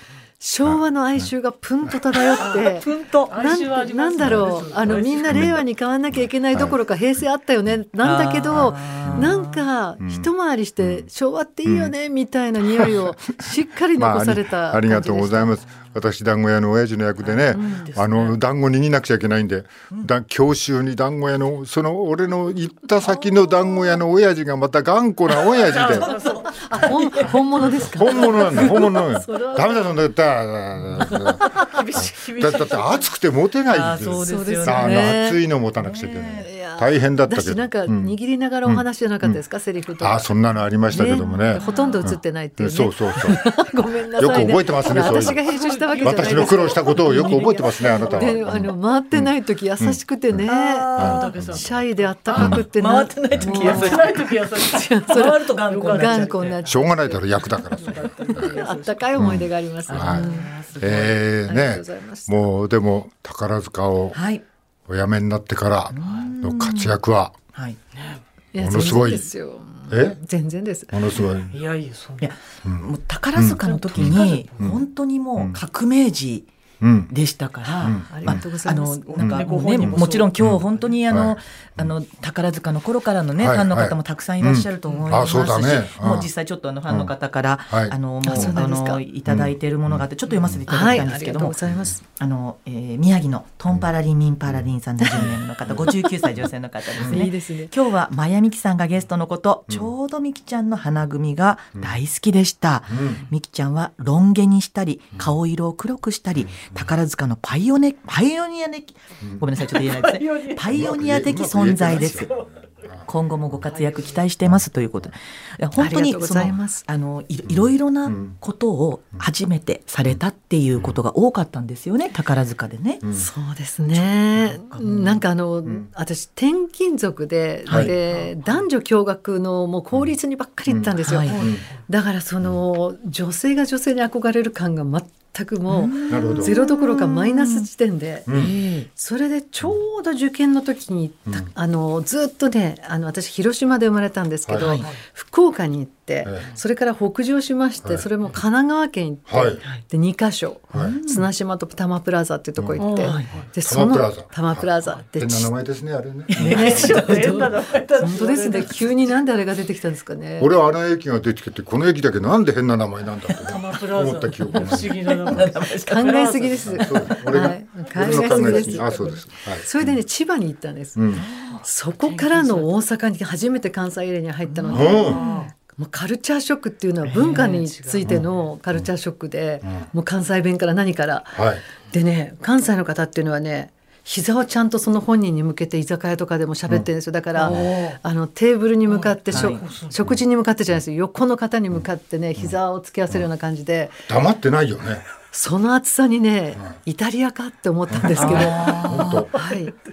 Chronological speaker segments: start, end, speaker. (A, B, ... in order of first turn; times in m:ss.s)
0:00.4-0:15.6 A
0:00.6-0:01.3 B
0:01.9-0:02.3 B
0:02.4-0:05.5 C
0:04.2-0:05.6 B
0:06.1-0:06.8 B
0:08.0-0:09.6 D
0:08.5-0:09.3 B
0:10.0-0:10.3 B
0:10.8-0:11.1 B
0:11.7-0:11.9 B
0:12.6-0:13.4 B
0:13.9-0:26.2 B
0:17.2-0:18.4 D
0:17.6-0:17.9 A
0:23.0-0:23.9 D
0:25.5-0:27.4 D
0:25.6-0:26.8 C
0:26.2-0:30.0 A
0:27.8-0:39.4 B
0:31.1-0:31.8 A
0:31.5-0:33.1 C
0:33.7-0:35.2 D
0:34.2-0:35.4 A
0:35.8-0:36.5 D
0:36.4-0:40.3 A
0:40.0-0:43.5 B
0:40.9-0:57.3 A
0:41.6-0:42.0 C
0:44.2-0:45.4 B
0:44.9-0:48.5 C
0:46.0-0:50.4 B
0:50.5-0:51.4 D
0:51.0-0:52.6 C
0:51.0-0:51.6 B
0:52.4-0:52.6 B
0:52.4-0:56.6 D
0:53.6-0:56.7 C
0:56.7-0:58.5 B
0:57.4-0:59.3 C
0:58.2-1:00.6 A
0:59.2-1:04.2 B
0:59.9-1:01.1 D
1:01.5-1:02.5 A
1:04.1-1:04.4 D
1:04.9-1:07.4 B
1:05.9-1:06.9 D
1:08.0-1:08.2 C
1:08.5-1:11.0 A
1:08.6-1:09.3 B
1:09.9-1:10.2 B
1:10.9-1:11.5 B
1:11.5-1:12.3 C
1:12.2-1:16.5 D
1:12.6-1:14.8 B
1:13.6-1:14.6 C
1:16.8-1:17.1 B
1:17.1-1:52.3 D
1:17.6-1:19.2 A
1:17.8-1:18.4 B
1:19.1-1:20.9 C
1:19.2-1:21.9 B
1:23.4-1:26.3 B
1:24.9-1:25.2 C
1:27.7-1:28.6 B
1:28.2-1:29.0 A
1:29.3-1:31.1 B
1:30.7-1:32.0 A
1:31.7-1:31.9 B
1:34.5-1:36.1 B
1:37.0-1:37.3 B
1:37.1-1:37.7 A
1:42.9-1:43.2 B
1:46.4-1:46.9 B
1:49.7-1:50.6 C
1:50.7-1:53.7 B
1:52.1-1:52.5 C
1:53.1-2:03.0 D
1:53.7-1:54.2 C
1:55.8-1:56.8 A
1:57.5-1:58.4 B
2:03.0-2:03.3 B
2:03.1-2:18.3 A
2:04.4-2:05.2 D
2:07.7-2:07.9 B
2:08.1-2:08.6 C
2:10.7-2:11.6 B
2:11.0-2:11.4 D
2:11.3-2:11.8 C
2:15.7-2:17.7 D
2:16.1-2:16.6 B
2:18.3-2:18.6 B
2:18.3-2:18.9 D
2:18.9-2:35.5 A
2:24.4-2:24.7 B
2:24.6-2:24.9 D
2:26.2-2:26.5 B
2:29.3-2:29.6 B
2:30.7-2:31.0 B
2:30.7-2:31.3 D
2:32.6-2:32.8 B
2:32.8-2:33.5 C
2:33.0-2:33.3 D
2:33.6-2:37.0 B
2:36.3-2:37.7 D
2:36.4-2:40.5 A
2:36.5-2:39.0 C
2:40.4-2:45.4 B
2:43.4-2:47.1 C
2:44.5-2:46.2 D
2:45.8-3:14.0 A
2:46.6-2:50.0 B
2:47.9-2:49.2 C
2:51.0-2:51.3 B
2:51.2-2:51.6 D
2:51.5-2:52.7 C
2:54.5-2:55.4 D
2:54.7-2:55.2 B
2:55.0-2:55.5 C
2:57.0-2:57.5 D
2:57.2-2:58.2 C
2:58.0-2:58.9 B
3:01.4-3:01.6 B
3:07.4-3:08.0 C
3:08.9-3:10.0 C
3:09.3-3:09.6 D
3:14.1-3:15.0 B
3:15.3-3:19.7 A
3:17.9-3:19.4 B
3:18.2-3:19.3 D
3:18.5-3:18.9 C